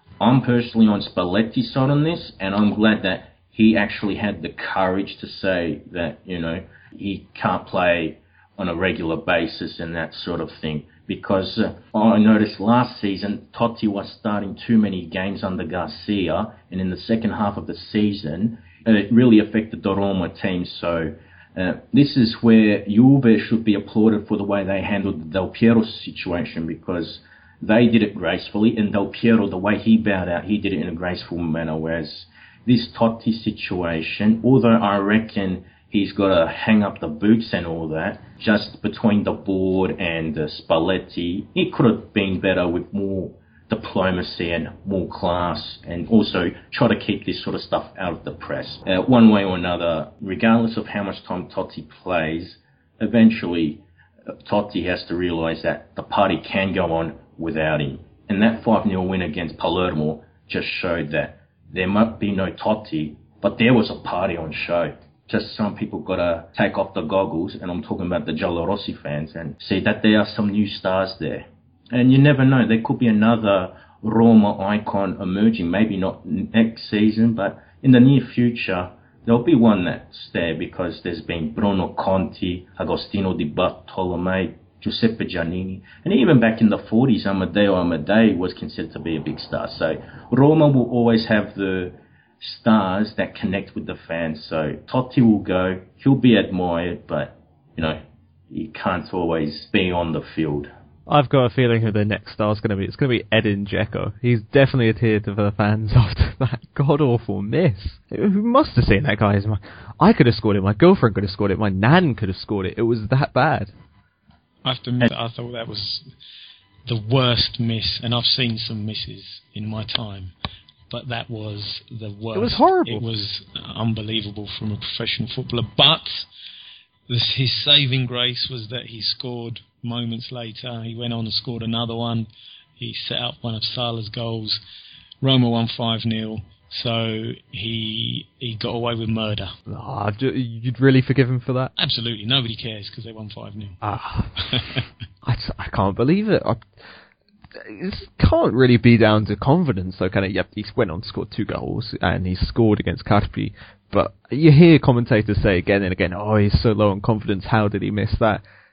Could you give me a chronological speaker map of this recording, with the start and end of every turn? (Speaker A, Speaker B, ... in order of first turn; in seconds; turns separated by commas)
Speaker A: 0.2-53.8, Speaker A: 54.4-98.0, Speaker A: 98.5-100.7, Speaker B: 101.1-113.7, Speaker C: 114.6-116.1, Speaker C: 116.8-120.3, Speaker C: 120.9-126.2, Speaker B: 122.3-123.0, Speaker C: 127.1-132.3, Speaker C: 132.8-134.6, Speaker C: 135.2-139.5, Speaker B: 139.7-141.7, Speaker C: 141.8-143.8, Speaker B: 143.8-144.7, Speaker C: 144.4-144.8, Speaker B: 145.2-146.6, Speaker B: 147.6-158.4